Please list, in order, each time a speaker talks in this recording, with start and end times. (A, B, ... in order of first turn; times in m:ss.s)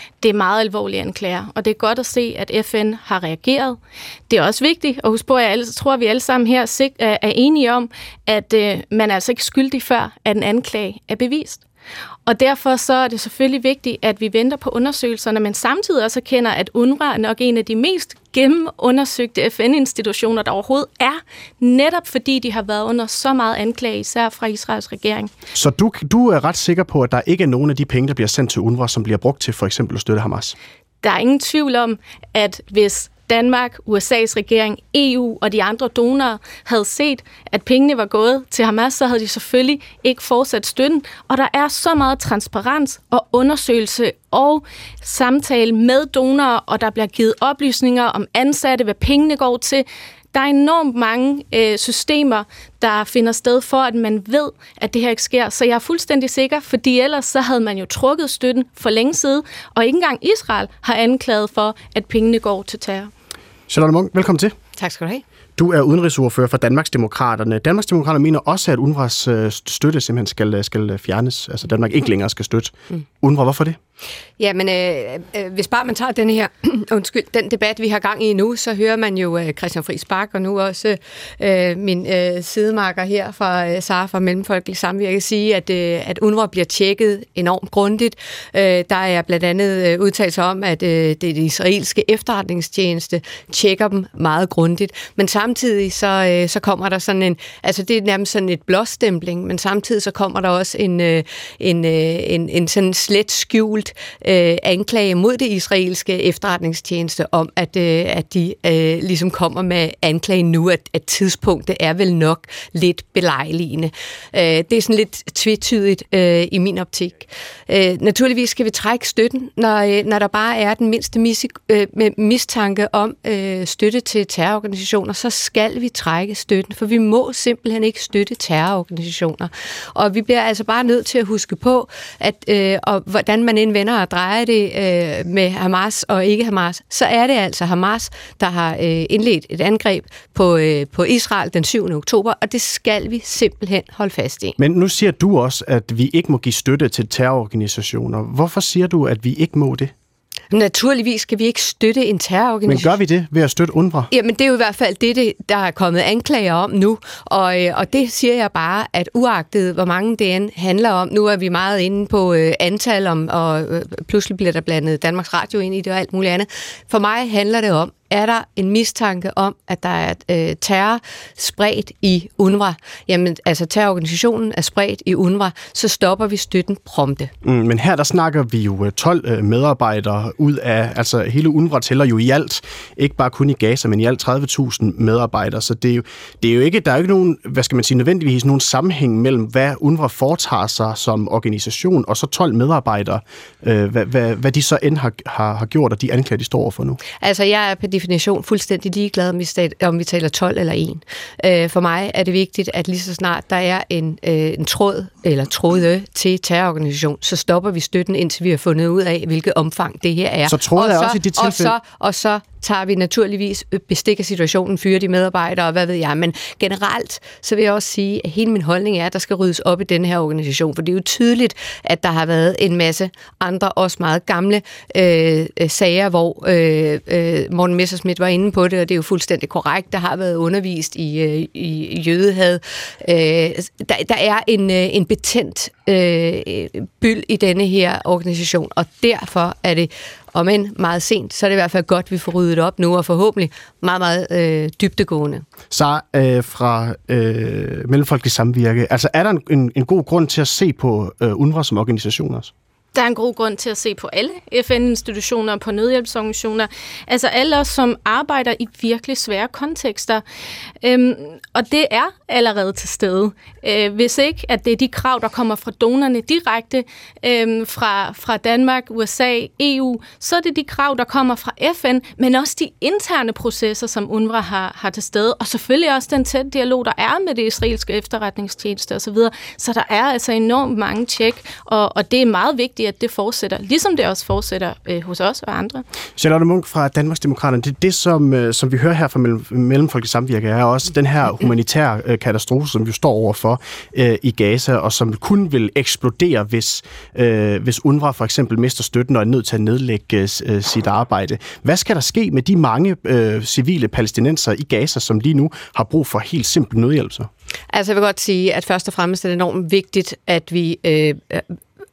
0:00.2-0:11.6 A
0:12.2-0:25.3 A
0:25.5-0:30.6 B
0:31.0-1:03.1 A
1:03.7-1:04.5 B
1:04.8-1:05.2 C
1:05.6-1:13.8 B
1:14.4-2:24.6 C
2:24.6-2:29.9 B
2:30.5-2:32.9 C
2:32.7-2:34.1 B
2:34.1-2:57.3 C
2:57.4-3:17.0 B
3:17.2-4:05.4 C
3:30.4-3:31.7 B
4:05.7-4:12.5 B
4:12.9-4:20.2 A
4:20.8-4:45.8 A
4:46.2-5:07.3 B
5:07.7-5:11.4 C